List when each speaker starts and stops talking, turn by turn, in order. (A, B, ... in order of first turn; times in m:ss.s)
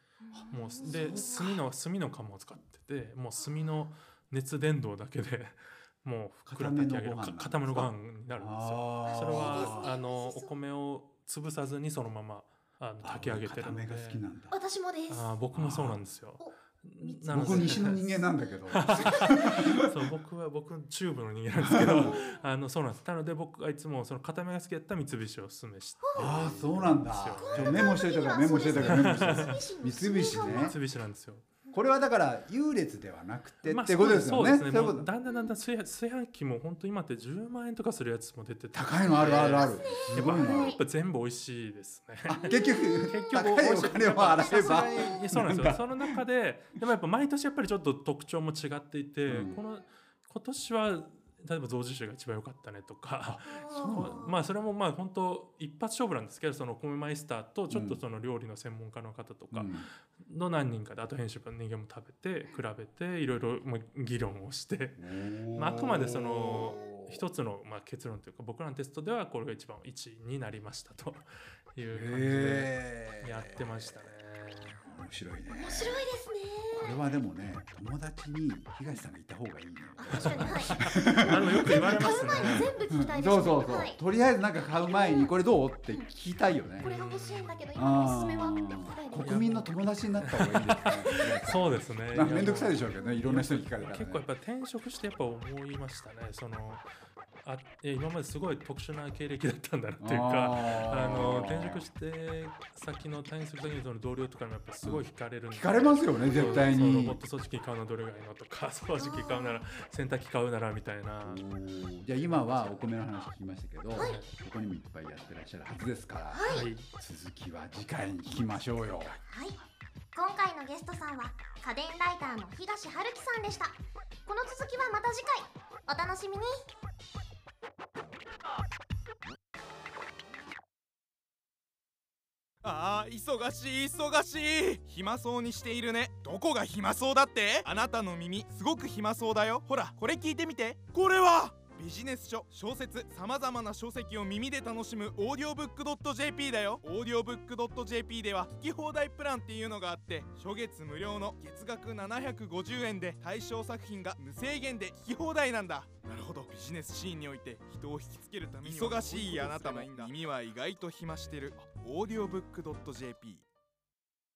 0:00.2-0:01.6 A
0:00.3-0:01.5 B
0:00.5-0:14.2 C
0:03.4-0:03.7 A
0:06.5-0:09.9 B
0:09.0-0:10.5 A
0:13.0-0:14.5 B
0:14.5-0:15.3 A
0:15.1-0:18.1 C
0:15.5-0:16.0 B
0:16.4-0:18.1 A
0:17.3-0:19.9 B
0:18.7-0:27.9 C
0:18.9-0:19.6 A
0:21.6-0:22.2 B
0:22.0-0:22.4 A
0:26.0-0:26.4 A
0:26.1-0:30.8 B
0:27.4-0:30.8 A
0:28.8-0:29.6 C
0:30.3-0:31.4 C
0:31.7-0:35.1 B
0:33.6-1:14.8 C
0:38.7-0:40.8 B
0:39.2-0:40.8 A
0:42.3-0:46.2 B
0:42.4-0:43.2 A
0:44.3-0:45.3 A
0:49.3-0:49.6 B
0:53.2-0:54.2 B
0:53.5-0:54.4 A
0:57.7-0:58.0 B
0:59.5-0:59.9 B
1:05.0-1:07.2 B
1:11.9-1:14.0 B
1:14.8-1:16.0 B
1:15.5-1:17.0 A
1:16.7-1:26.9 B
1:20.0-1:24.0 A
1:20.1-1:22.7 C
1:24.8-1:25.3 A
1:26.8-1:27.6 C
1:26.8-1:29.4 A
1:27.7-1:34.2 B
1:29.2-1:36.8 C
1:31.2-1:31.4 A
1:37.4-1:51.4 C
1:40.0-1:41.8 B
1:44.8-1:47.2 B
1:49.0-1:49.6 A
1:51.2-1:59.2 B
1:52.2-1:52.9 C
1:53.9-1:54.2 A
1:53.9-1:54.3 C
1:56.3-1:56.7 A
1:56.4-1:56.9 C
1:59.3-1:59.6 A
2:00.1-2:06.6 A
2:12.6-2:43.4 D
2:39.1-2:39.5 B